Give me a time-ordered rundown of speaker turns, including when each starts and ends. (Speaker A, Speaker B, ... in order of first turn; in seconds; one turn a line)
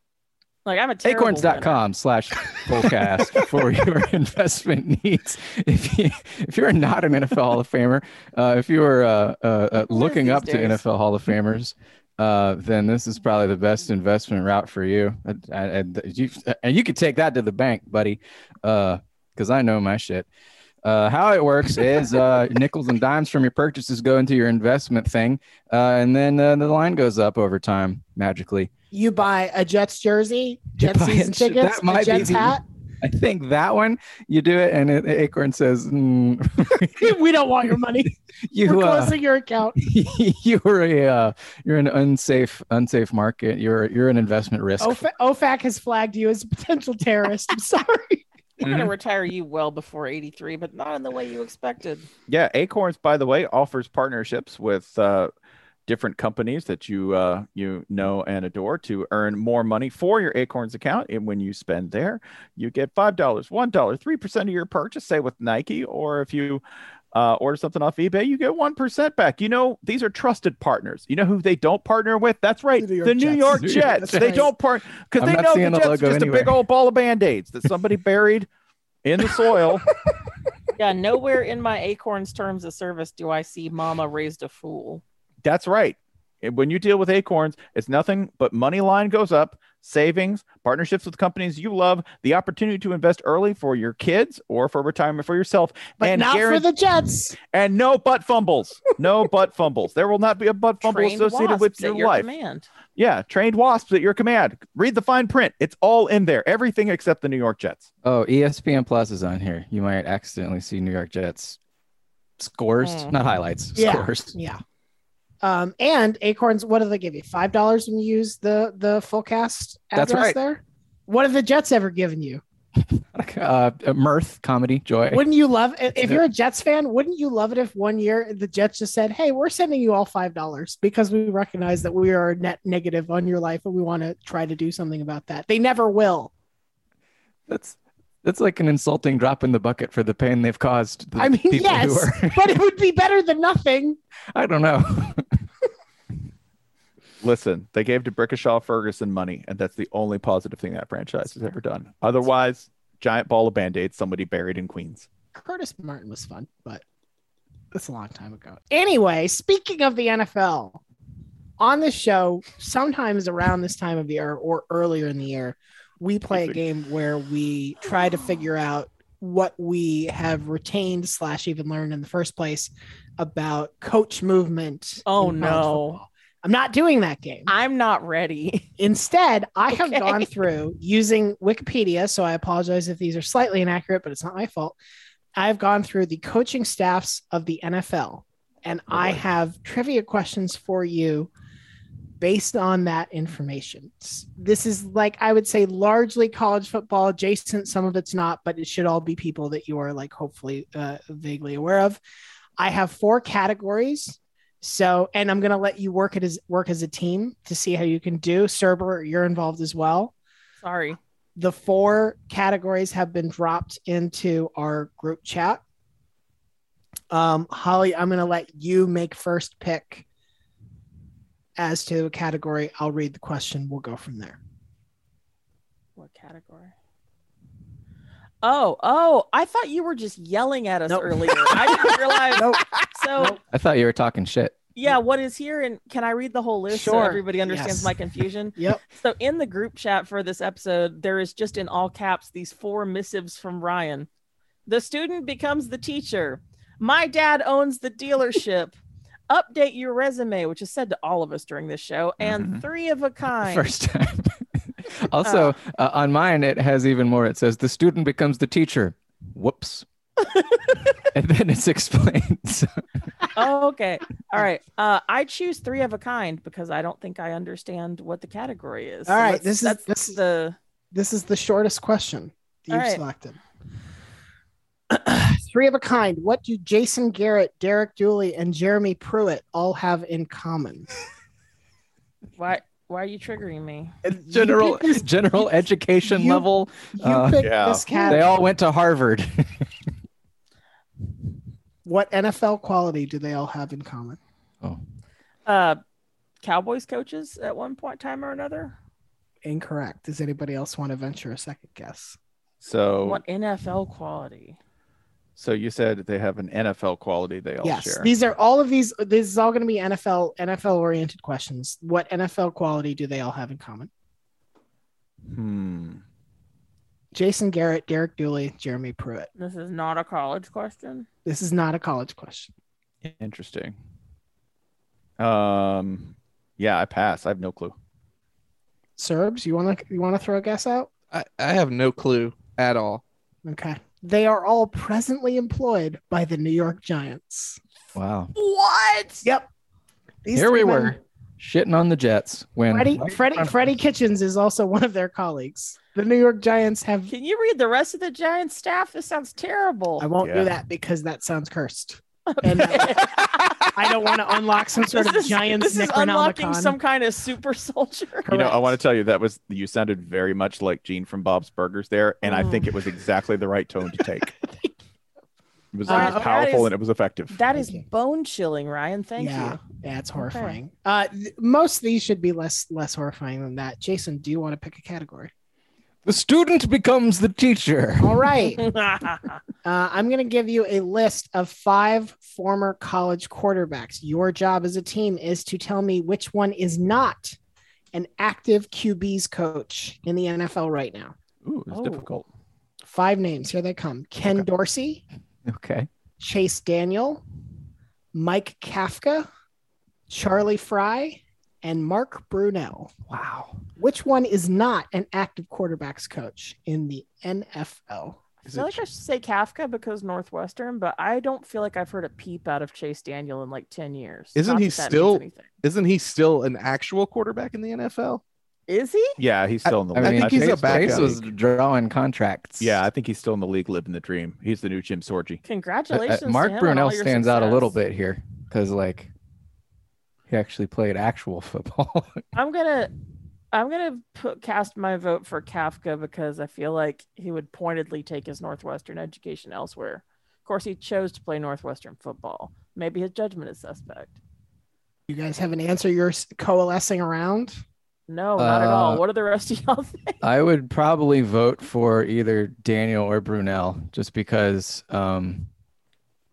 Speaker A: 0.6-1.8
Speaker B: 1.0-20.2
Speaker A: 9.8-10.8
Speaker B: 20.8-28.7
Speaker C: 28.9-32.6
Speaker B: 30.8-37.1
Speaker C: 37.0-39.8
Speaker B: 38.5-39.1
Speaker B: 39.8-45.0
Speaker C: 44.8-48.2
Speaker A: 48.6-52.1
Speaker D: 48.6-48.9
Speaker D: 52.3-55.3
Speaker D: 55.9-66.6
Speaker D: 67.1-78.5
Speaker C: 72.8-74.5
Speaker B: 73.5-74.5
Speaker B: 75.2-76.6
Speaker D: 79.0-79.8
Speaker A: 80.8-85.0
Speaker D: 85.4-96.7
Speaker C: 96.0-97.4
Speaker D: 97.4-102.3
Speaker A: 100.8-102.7
Speaker D: 103.0-107.9
Speaker B: 108.0-111.6
Speaker B: 112.4-114.3
Speaker A: 112.8-113.1
Speaker C: 113.8-114.6
Speaker C: 115.4-122.4
Speaker B: 119.9-120.4
Speaker B: 122.9-125.2
Speaker C: 125.1-136.3
Speaker B: 137.5-142.5
Speaker C: 141.2-144.0
Speaker B: 144.3-145.4
Speaker D: 147.2-155.1
Speaker C: 155.3-156.8
Speaker C: 157.7-160.8
Speaker C: 161.6-177.5
Speaker A: 175.1-176.0
Speaker A: 177.5-178.7
Speaker C: 178.8-184.8
Speaker A: 179.7-180.3
Speaker C: 185.3-191.3
Speaker D: 188.9-189.2
Speaker C: 192.2-202.0
Speaker C: 202.6-210.1
Speaker A: 210.6-211.0
Speaker C: 211.3-215.6
Speaker C: 217.1-220.0
Speaker C: 221.6-224.4
Speaker A: 225.9-226.7
Speaker A: 228.4-233.4
Speaker C: 230.9-233.4
Speaker B: 233.5-234.6
Speaker A: 234.8-244.1
Speaker C: 236.7-238.0
Speaker C: 238.6-238.8
Speaker A: 244.7-248.8
Speaker A: 249.3-253.7
Speaker D: 252.2-252.6
Speaker B: 253.4-254.3
Speaker B: 254.9-259.8
Speaker A: 255.2-255.5
Speaker B: 261.1-262.7
Speaker A: 263.4-270.6
Speaker C: 269.1-270.2
Speaker C: 270.9-273.4
Speaker A: 272.7-273.0
Speaker C: 274.9-280.9
Speaker A: 282.4-283.9
Speaker C: 284.0-285.5
Speaker B: 284.3-289.7
Speaker C: 286.0-288.4
Speaker D: 287.4-288.1
Speaker C: 291.8-294.2
Speaker A: 295.4-295.8
Speaker A: 296.4-298.7
Speaker C: 299.4-302.2
Speaker D: 302.6-303.2
Speaker A: 303.0-304.6
Speaker D: 305.4-308.1
Speaker C: 307.6-313.9
Speaker D: 315.3-316.0
Speaker C: 317.1-319.3
Speaker A: 319.4-321.1
Speaker C: 321.2-322.5
Speaker D: 323.0-323.8
Speaker D: 325.2-327.7
Speaker C: 329.0-330.9
Speaker E: 331.1-333.0
Speaker C: 333.4-337.6
Speaker B: 337.9-338.3
Speaker A: 338.4-339.2
Speaker C: 340.2-341.0
Speaker B: 340.3-343.5
Speaker C: 342.7-347.1
Speaker A: 347.1-350.1
Speaker C: 350.0-356.8
Speaker D: 350.2-350.5
Speaker A: 352.3-353.5
Speaker A: 354.9-358.3
Speaker C: 358.3-358.7
Speaker D: 358.3-364.3
Speaker A: 362.3-362.6
Speaker D: 365.7-367.4
Speaker C: 365.9-366.2
Speaker A: 365.9-366.7
Speaker A: 367.3-369.6
Speaker C: 367.5-367.8
Speaker C: 369.2-375.3
Speaker A: 370.2-370.6
Speaker B: 376.0-378.2
Speaker C: 378.0-378.6
Speaker A: 378.6-379.2
Speaker C: 379.6-387.4
Speaker C: 387.9-391.1
Speaker D: 391.4-392.2
Speaker A: 391.7-392.1
Speaker C: 392.9-395.0
Speaker B: 395.4-395.9
Speaker C: 396.2-397.2
Speaker C: 398.1-399.3
Speaker C: 400.1-402.9
Speaker B: 403.1-403.6
Speaker C: 403.8-408.2
Speaker A: 408.4-415.5
Speaker E: 408.5-408.8
Speaker E: 414.3-418.2
Speaker A: 418.7-419.2
Speaker D: 419.2-421.2
Speaker E: 419.6-421.2
Speaker B: 419.9-422.8
Speaker D: 422.6-425.4
Speaker A: 425.4-427.8
Speaker B: 425.9-429.1
Speaker B: 430.3-432.2
Speaker A: 432.3-432.9
Speaker A: 433.5-444.2
Speaker C: 445.1-447.6
Speaker A: 448.1-450.1
Speaker B: 448.4-449.0
Speaker B: 450.2-455.5